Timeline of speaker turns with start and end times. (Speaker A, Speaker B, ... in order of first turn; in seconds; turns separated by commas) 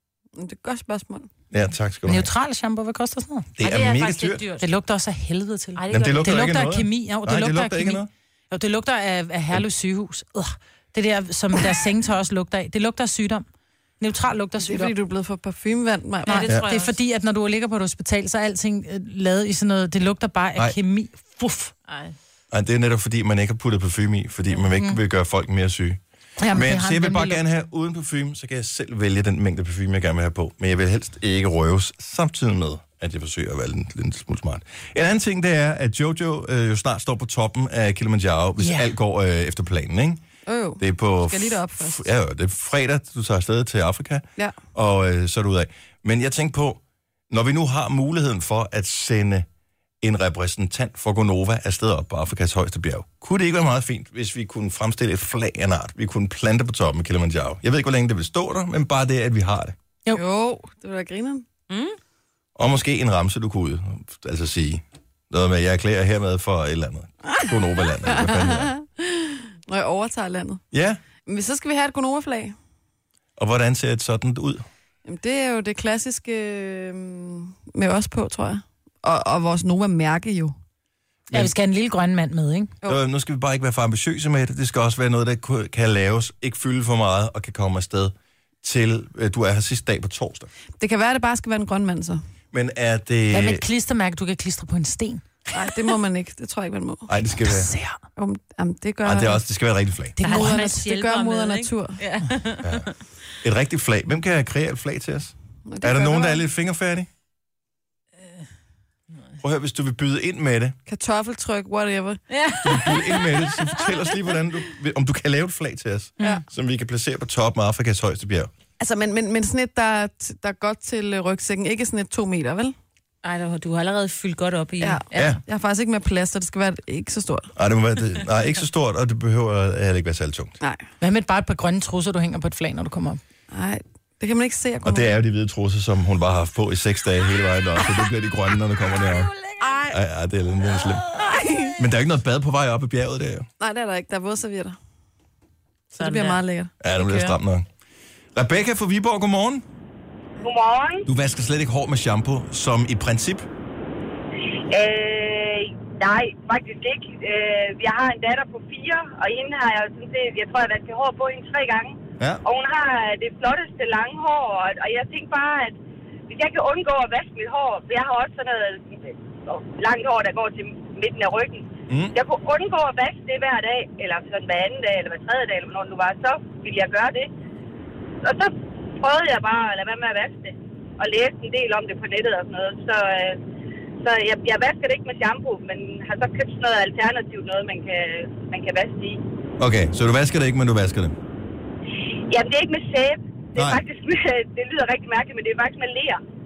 Speaker A: 0.3-1.3, Speaker B: 1.5-2.3, Speaker C: 2.0-3.5, Speaker B: 3.5-4.4, Speaker D: 3.6-4.7, Speaker C: 4.6-13.4, Speaker D: 5.8-6.4, Speaker B: 5.9-8.1, Speaker C: 14.0-14.9, Speaker A: 14.6-16.5, Speaker D: 16.2-16.9, Speaker C: 16.3-21.7, Speaker D: 21.9-22.1, Speaker B: 22.5-26.0, Speaker C: 26.4-27.4, Speaker B: 26.5-40.2, Speaker C: 38.6-38.9, Speaker A: 40.5-42.1, Speaker B: 40.8-49.5, Speaker B: 50.0-59.7, Speaker A: 60.1-61.4, Speaker D: 61.7-62.0, Speaker B: 62.5-68.7, Speaker A: 67.4-70.6, Speaker B: 70.7-71.0, Speaker A: 71.2-72.5, Speaker B: 73.4-74.7, Speaker A: 75.0-80.5, Speaker C: 81.3-82.7, Speaker B: 82.8-90.5, Speaker A: 90.8-92.2, Speaker B: 92.5-93.6, Speaker C: 93.3-95.2, Speaker A: 95.5-97.1, Speaker B: 97.1-97.7, Speaker C: 97.4-98.0, Speaker A: 98.2-99.4, Speaker B: 99.0-100.2, Speaker C: 100.2-100.8, Speaker A: 100.2-102.0, Speaker D: 100.2-102.9, Speaker B: 102.6-102.9, Speaker B: 103.4-107.1, Speaker A: 105.7-106.4, Speaker B: 109.4-110.8, Speaker A: 110.9-112.2, Speaker D: 112.3-113.9, Speaker B: 112.6-118.5, Speaker A: 118.8-122.7, Speaker D: 123.2-125.4, Speaker A: 124.8-127.5, Speaker B: 125.1-125.4, Speaker B: 127.5-130.6, Speaker C: 131.0-133.2, Speaker A: 133.5-135.2, Speaker B: 134.8-139.3, Speaker D: 139.4-139.7, Speaker A: 139.6-140.0, Speaker B: 139.9-141.1, Speaker A: 141.1-141.8, Speaker B: 141.8-143.5, Speaker A: 143.6-144.8, Speaker D: 145.9-146.4, Speaker A: 146.0-146.7, Speaker B: 146.8-147.7, Speaker B: 148.3-149.6, Speaker E: 150.4-151.1, Speaker B: 151.1-153.5, Speaker E: 154.7-165.8, Speaker E: 166.3-177.3, Speaker B: 171.9-172.1, Speaker E: 178.2-183.4, Speaker E: 184.0-189.2, Speaker B: 189.6-191.2, Speaker E: 192.3-196.2, Speaker B: 193.6-193.8